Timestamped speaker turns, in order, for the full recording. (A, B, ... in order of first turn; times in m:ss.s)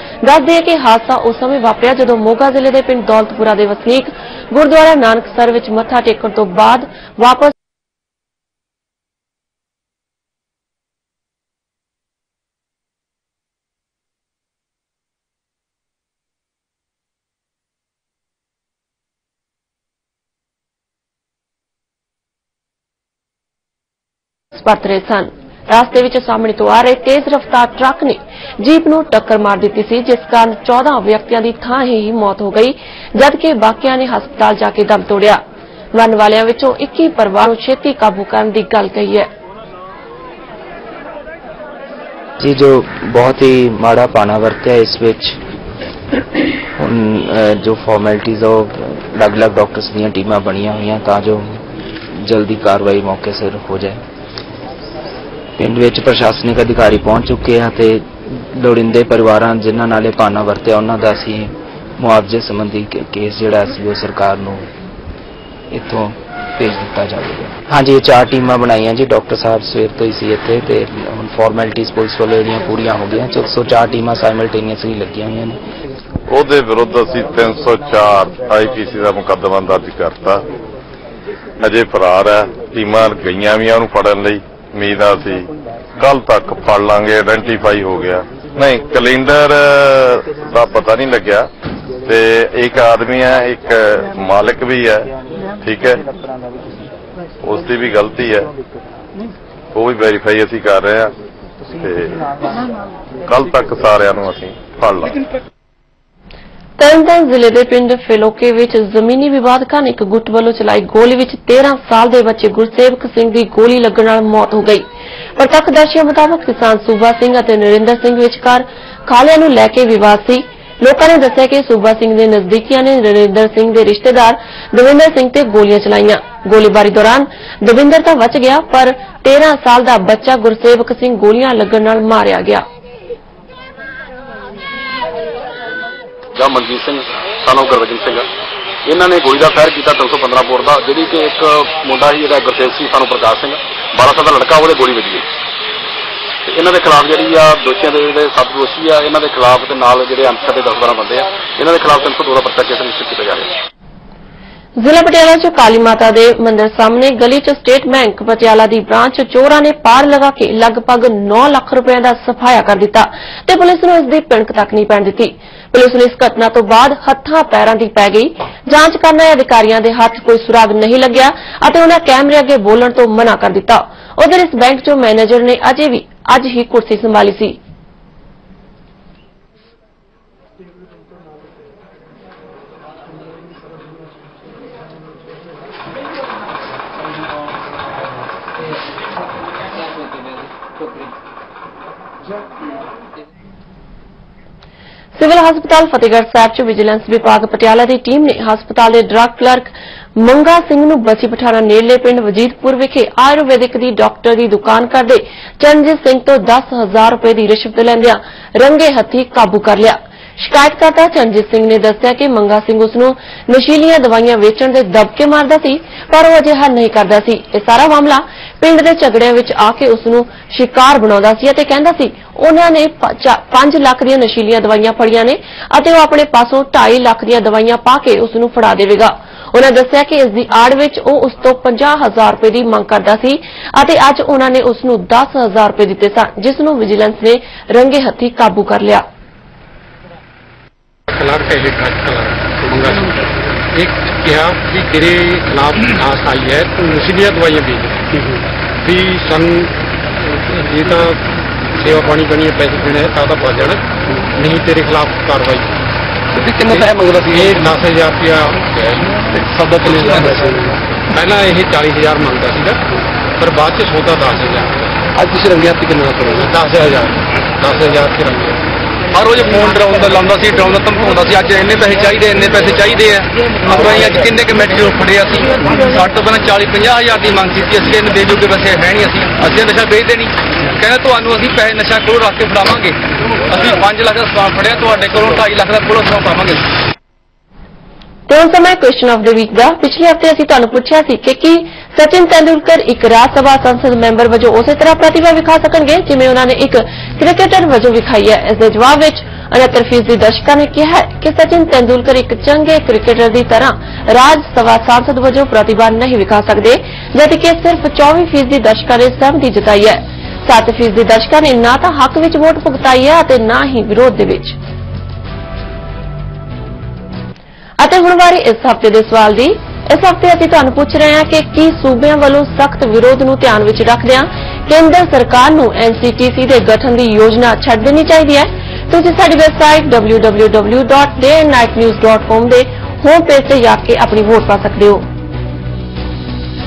0:00.2-0:07.5 A
0:24.6-0:35.4 A
0:35.9-0:39.3 A
0:42.4-0:45.4 B
0:46.8-0:54.0 B
0:55.6-1:04.7 B
1:05.7-1:15.6 B
1:16.3-1:20.4 C
1:21.6-1:25.5 C
1:26.0-1:31.5 C
1:32.0-1:35.1 C
1:35.6-1:36.0 C
1:37.4-1:38.5 C
1:39.7-1:41.1 C
1:41.8-1:42.2 C
1:43.3-1:45.2 C
1:46.8-1:54.8 A
1:55.4-2:12.6 A
2:16.3-2:18.3 D
2:18.8-2:25.2 D
2:26.5-2:33.5 D
2:34.8-2:57.6 A
3:15.2-3:59.0 A
4:01.2-4:03.1 E
4:03.7-4:09.7 E
4:10.5-4:11.2 E
4:11.8-4:15.8 E
4:16.3-4:17.6 F
4:16.7-4:22.8 E
4:19.4-4:20.6 F
4:23.4-4:24.8 E
4:25.1-4:26.5 F
4:26.4-4:28.6 E
4:29.1-4:43.0 F
4:43.5-4:46.6 F
4:48.3-5:14.6 A
5:17.8-5:35.0 A